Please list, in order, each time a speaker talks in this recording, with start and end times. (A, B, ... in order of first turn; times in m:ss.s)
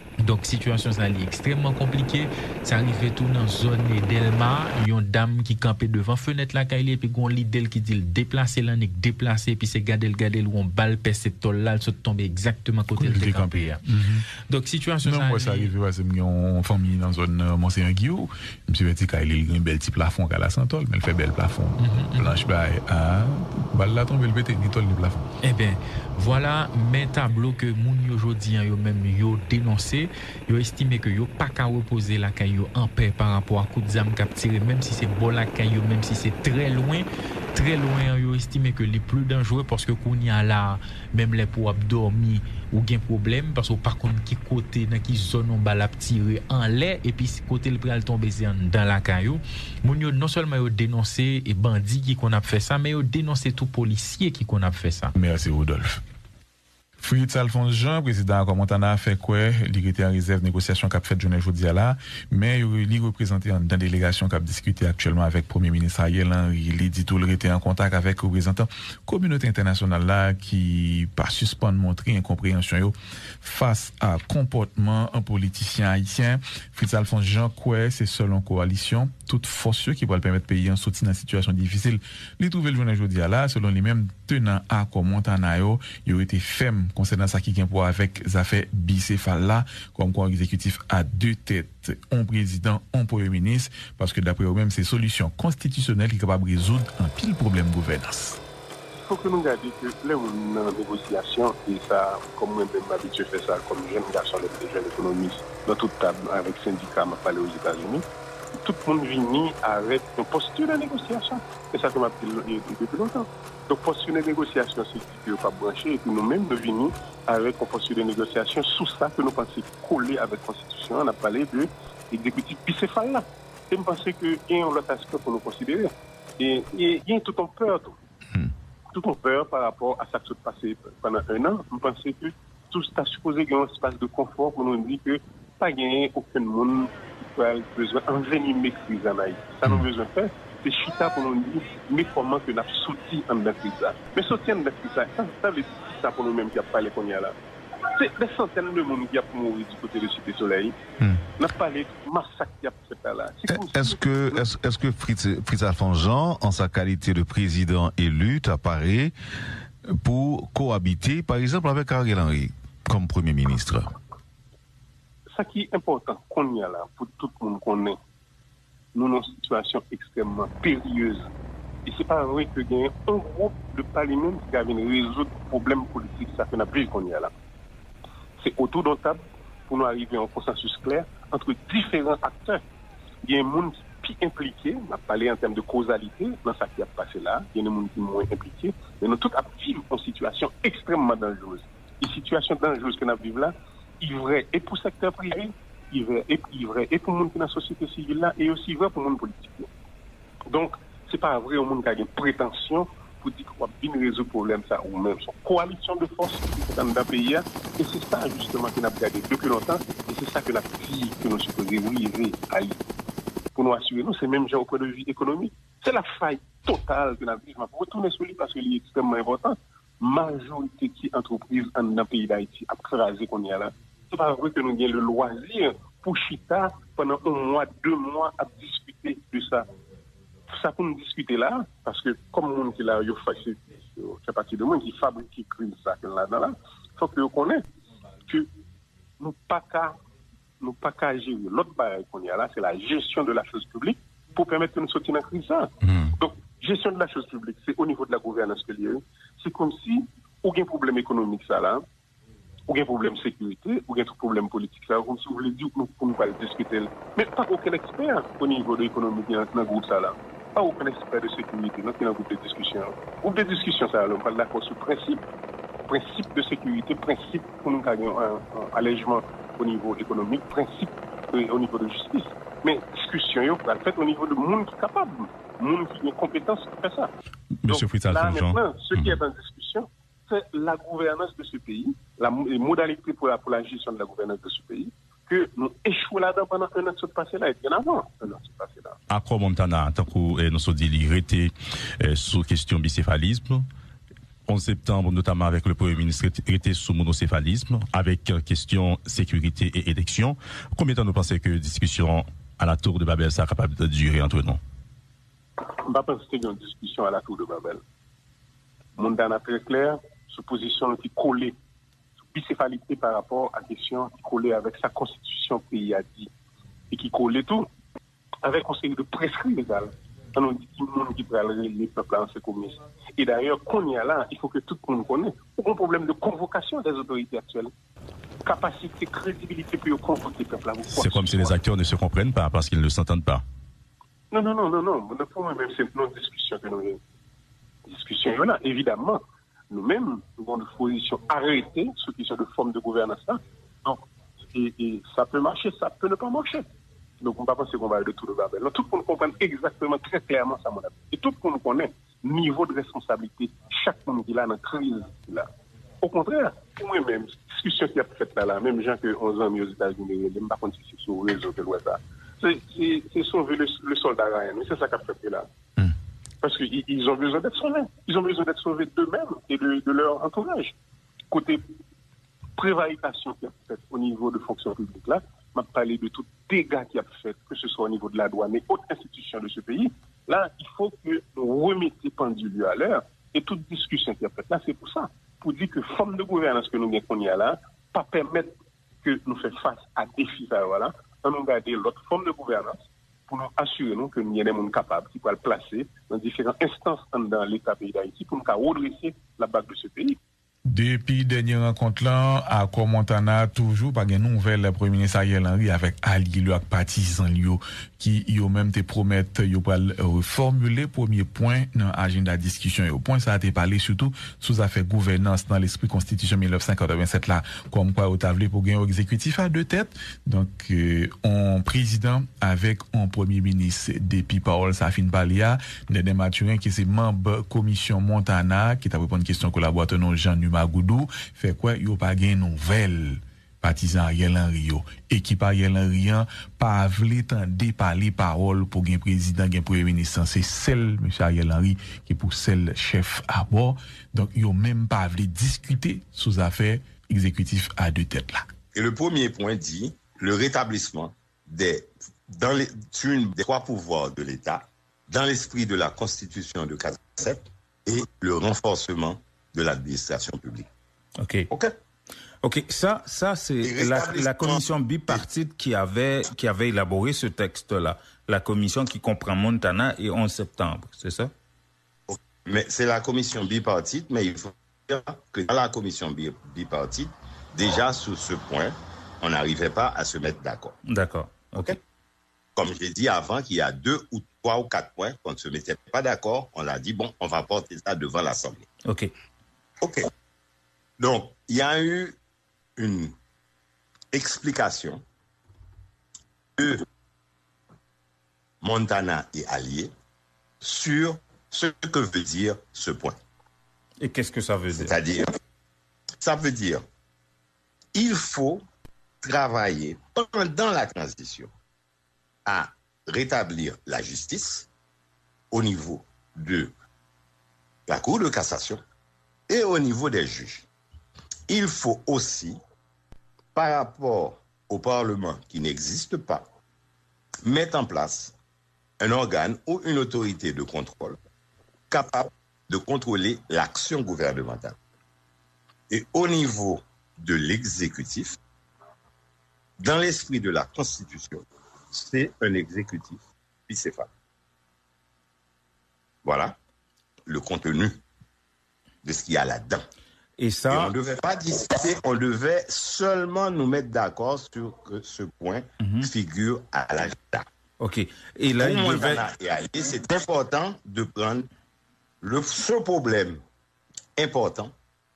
0:00.2-0:13.8 A
0:13.0-0:14.2 B
0:14.5-0:15.7 A
0:15.0-0:25.2 B
0:21.8-0:22.3 A
0:25.4-0:55.1 A
0:55.1-0:56.0 B
0:57.0-1:38.4 B
1:38.9-1:48.0 C
1:48.6-2:08.0 C
2:08.9-2:27.4 C
2:27.9-2:30.8 C
2:31.4-2:34.4 C
2:33.5-2:39.1 D
2:39.9-2:43.9 D
2:45.3-2:48.0 C
2:48.9-2:51.2 C
2:51.8-2:57.3 C
2:58.4-3:02.6 C
3:03.2-3:19.7 C
3:20.5-3:32.8 C
3:33.5-3:49.6 C
3:50.5-3:57.6 C
3:59.2-4:00.0 C
4:00.6-4:11.8 C
4:12.7-4:25.2 C
4:25.9-4:37.1 C
4:37.6-4:39.2 E
4:37.7-4:49.0 C
4:49.1-4:53.6 E
4:54.5-5:04.6 E
5:05.8-5:07.8 C
5:09.0-5:11.6 C
5:12.3-5:16.3 C
5:16.9-5:17.7 C
5:18.4-5:27.7 C
5:28.4-5:31.5 C
5:30.9-5:33.4 E
5:34.3-5:37.0 C
5:37.8-5:44.0 C
5:44.5-5:46.6 C
5:47.2-5:55.5 C
5:56.0-6:05.5 C
6:06.4-6:10.7 C
6:11.3-6:11.6 C
6:12.6-6:32.8 C
6:33.3-6:40.2 C
6:40.6-7:28.5 B
7:28.7-7:40.7 F
7:41.2-7:41.5 G
7:42.4-7:51.3 G
7:43.6-7:45.2 F
7:52.1-8:00.8 F
8:00.8-8:01.8 G
8:02.6-8:08.6 F
8:08.8-8:09.1 G
8:09.8-8:10.1 F
8:11.0-8:12.1 F
8:12.8-8:13.1 F
8:14.1-8:15.0 F
8:16.6-8:16.8 F
8:18.6-8:19.9 F
8:20.6-8:23.2 F
8:24.0-8:25.0 G
8:24.7-8:25.3 F
8:26.2-8:26.8 F
8:27.9-8:28.6 F
8:29.2-8:31.5 F
8:32.4-8:34.6 F
8:35.5-8:36.7 F
8:37.9-8:38.8 F
8:39.5-8:40.6 F
8:41.5-8:42.6 F
8:43.5-8:46.4 F
8:47.4-8:48.3 F
8:49.0-8:51.2 F
8:51.9-8:54.8 F
8:55.9-8:58.4 F
8:59.8-9:04.1 F
9:06.2-9:06.6 F
9:07.3-9:08.0 F
9:09.0-9:09.8 F
9:10.4-9:11.0 G
9:10.7-9:17.4 F
9:15.8-9:16.1 G
9:17.8-9:19.3 G
9:18.6-9:21.5 F
9:22.2-9:23.4 F
9:24.2-9:24.7 F